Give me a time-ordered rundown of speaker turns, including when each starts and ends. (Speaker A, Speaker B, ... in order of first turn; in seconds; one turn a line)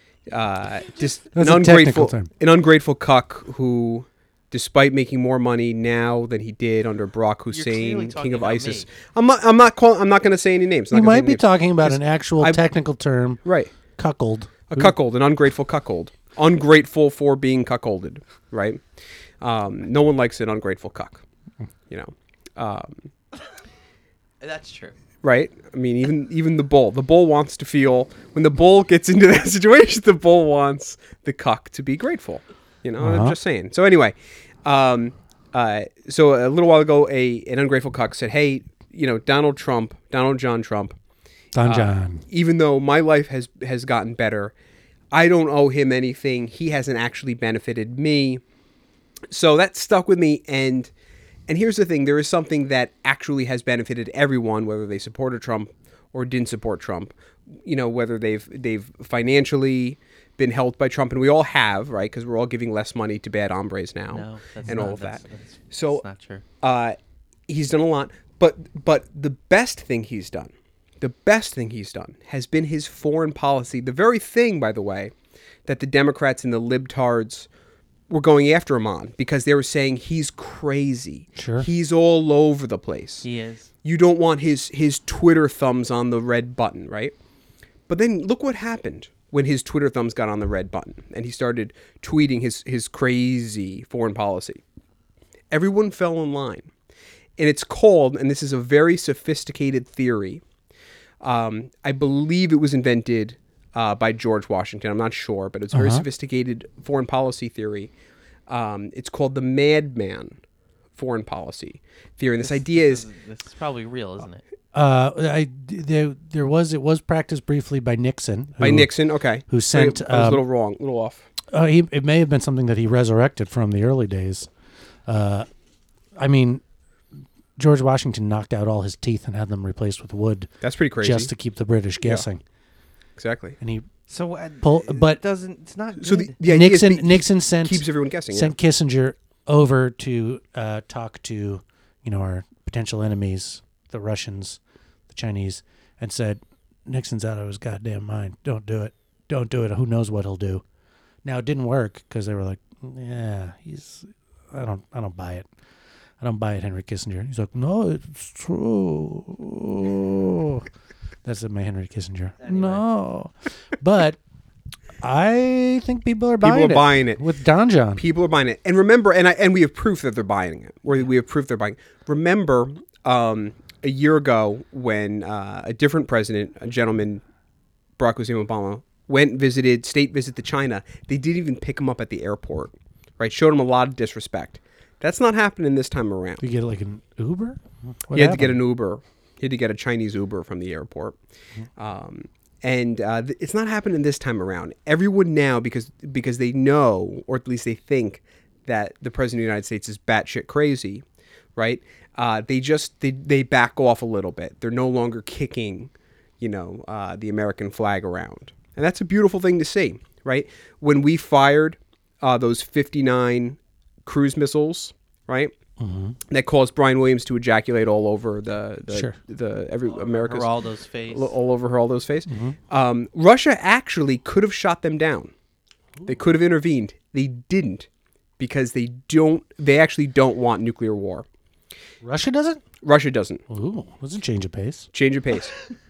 Speaker A: 0.3-12.6
Speaker B: 1.3-2.3
Speaker C: 7.5-8.9
Speaker B: 10.9-14.9
Speaker A: 13.4-13.7
Speaker A: 14.7-18.8
Speaker A: 19.4-21.2
Speaker A: 21.9-23.1
Speaker C: 24.4-24.9
Speaker A: 25.2-41.0
Speaker B: 33.0-33.4
Speaker B: 41.5-42.2
Speaker A: 41.6-44.5
Speaker A: 45.1-48.4
Speaker A: 49.3-50.9
Speaker A: 51.5-66.0
Speaker C: 64.1-66.4
Speaker A: 66.6-67.0
Speaker A: 67.5-75.1
Speaker A: 75.7-77.5
Speaker A: 78.1-83.3
Speaker B: 81.4-81.7
Speaker C: 83.2-83.7
Speaker A: 83.8-87.2
Speaker A: 87.9-94.6
Speaker A: 95.5-96.7
Speaker A: 97.4-100.4
Speaker A: 101.2-107.9
Speaker B: 105.7-106.0
Speaker A: 108.5-110.4
Speaker A: 111.0-113.0
Speaker C: 112.4-114.4
Speaker B: 114.7-118.9
Speaker A: 118.6-121.3
Speaker B: 119.5-120.4
Speaker B: 121.5-124.5
Speaker B: 125.1-125.5
Speaker B: 126.2-126.6
Speaker B: 127.6-130.5
Speaker A: 130.6-131.3
Speaker B: 131.0-132.4
Speaker A: 133.2-133.6
Speaker B: 133.6-133.9
Speaker C: 134.1-136.4
Speaker B: 134.6-135.2
Speaker A: 136.0-138.5
Speaker B: 136.4-150.6
Speaker B: 151.2-155.5
Speaker B: 156.2-160.7
Speaker B: 161.2-164.2
Speaker C: 162.4-162.8
Speaker B: 165.0-168.0
Speaker A: 166.4-167.2
Speaker A: 168.0-177.2
Speaker A: 178.0-186.4
Speaker B: 186.4-188.6
Speaker A: 188.1-191.2
Speaker A: 191.8-201.0
Speaker A: 201.6-215.5
Speaker B: 215.8-216.2
Speaker A: 216.3-220.5
Speaker C: 219.9-221.3
Speaker A: 221.1-225.3
Speaker B: 222.3-222.6
Speaker A: 226.1-227.9
Speaker A: 228.4-231.2
Speaker B: 232.0-232.6
Speaker A: 232.8-233.4
Speaker B: 233.5-234.9
Speaker A: 234.9-235.6